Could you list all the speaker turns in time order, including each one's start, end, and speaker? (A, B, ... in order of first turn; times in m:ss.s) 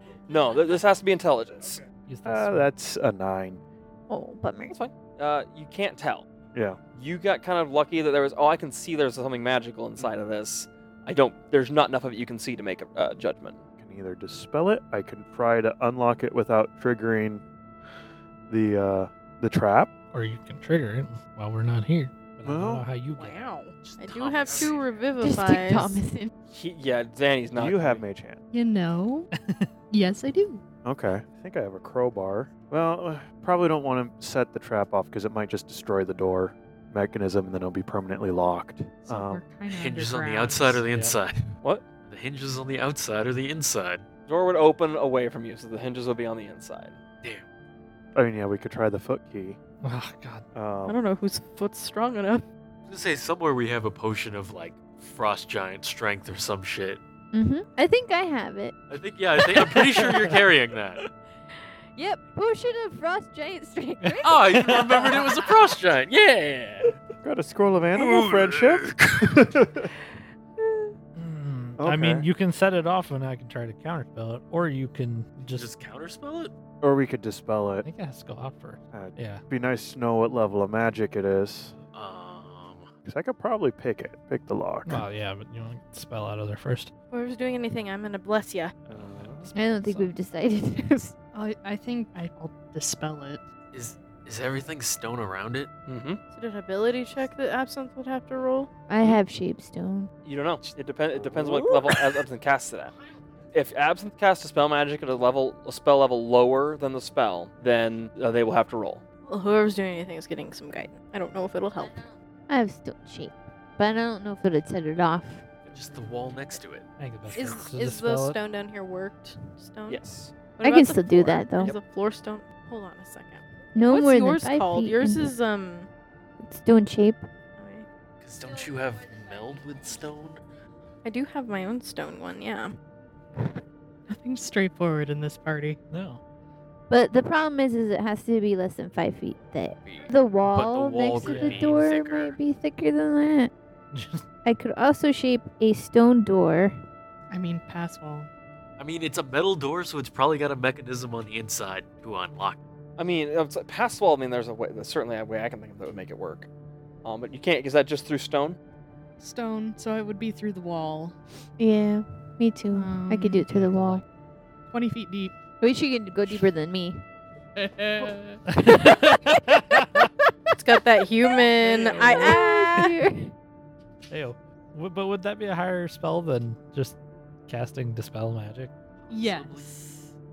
0:00.3-0:01.8 A
0:02.0-0:02.7 B
0:02.2-0:03.6 C
0:04.1-0:04.8 D
0:04.7-0:06.2 A
0:06.5-0:06.8 C
0:06.9-0:13.6 A
0:13.8-0:17.4 C
0:18.5-0:19.9 C
0:20.1-0:23.5 B
0:22.4-0:22.8 C
0:23.1-0:26.0 E
0:23.8-0:24.9 F
0:25.2-0:26.3 D
0:26.5-0:28.0 A
0:27.5-0:28.4 C
0:28.5-0:29.3 G
0:29.3-0:29.7 B
0:29.9-0:30.6 G
0:30.8-0:39.5 C
0:39.0-0:40.8 G
0:39.7-0:41.5 F
0:40.9-0:41.2 B
0:42.0-0:44.0 F
0:44.3-0:47.0 A
0:48.1-0:49.6 C
0:49.8-0:50.4 B
0:50.5-0:51.0 C
0:50.9-0:52.4 E
0:52.9-0:57.0 F
0:57.3-0:58.8 D
0:58.9-1:01.0 F
0:59.4-1:00.4 B
1:01.9-1:05.5 D
1:04.0-1:05.0 B
1:04.2-1:07.0 F
1:07.2-1:09.9 C
1:07.9-1:09.4 F
1:11.2-1:15.7 B
1:11.8-1:12.2 C
1:15.5-1:16.5 F
1:16.8-1:17.8 C
1:17.8-1:19.4 B
1:18.9-1:21.7 C
1:21.9-1:22.9 F
1:23.0-1:25.0 C
1:24.8-1:26.9 B
1:27.1-1:28.7 E
1:28.9-1:29.5 C
1:29.5-1:31.1 D
1:31.3-1:33.4 G
1:33.7-1:35.7 F
1:35.9-1:36.2 A
1:36.3-1:38.7 E
1:38.9-1:40.1 D
1:40.2-1:42.9 A
1:41.1-1:41.7 C
1:43.5-1:49.0 A
1:49.3-1:52.0 E
1:52.5-1:55.5 D
1:55.7-1:56.9 F
1:57.0-1:58.4 B
1:57.3-2:00.0 E
1:59.9-2:00.3 A
2:00.6-2:05.9 E
2:00.6-2:01.7 D
2:03.7-2:05.3 D
2:06.4-2:07.2 D
2:07.6-2:07.9 E
2:08.2-2:10.4 F
2:11.0-2:12.8 E
2:14.1-2:15.8 G
2:15.9-2:16.2 B
2:16.9-2:23.5 D
2:19.8-2:22.4 F
2:21.2-2:21.8 B
2:23.9-2:24.2 B
2:24.4-2:26.7 D
2:27.3-2:28.3 G
2:28.8-2:32.6 F
2:33.0-2:36.5 A
2:37.0-2:38.6 A
2:39.2-2:41.2 G
2:41.6-2:44.0 D
2:42.7-2:43.4 G
2:43.5-2:44.0 B
2:44.7-2:45.3 G
2:45.6-2:47.0 D
2:47.6-2:48.4 G
2:48.5-2:50.1 B
2:48.6-2:49.4 D
2:50.5-2:52.8 E
2:51.9-2:53.3 D
2:54.1-2:58.7 B
2:59.0-2:59.7 F
2:59.1-3:00.0 G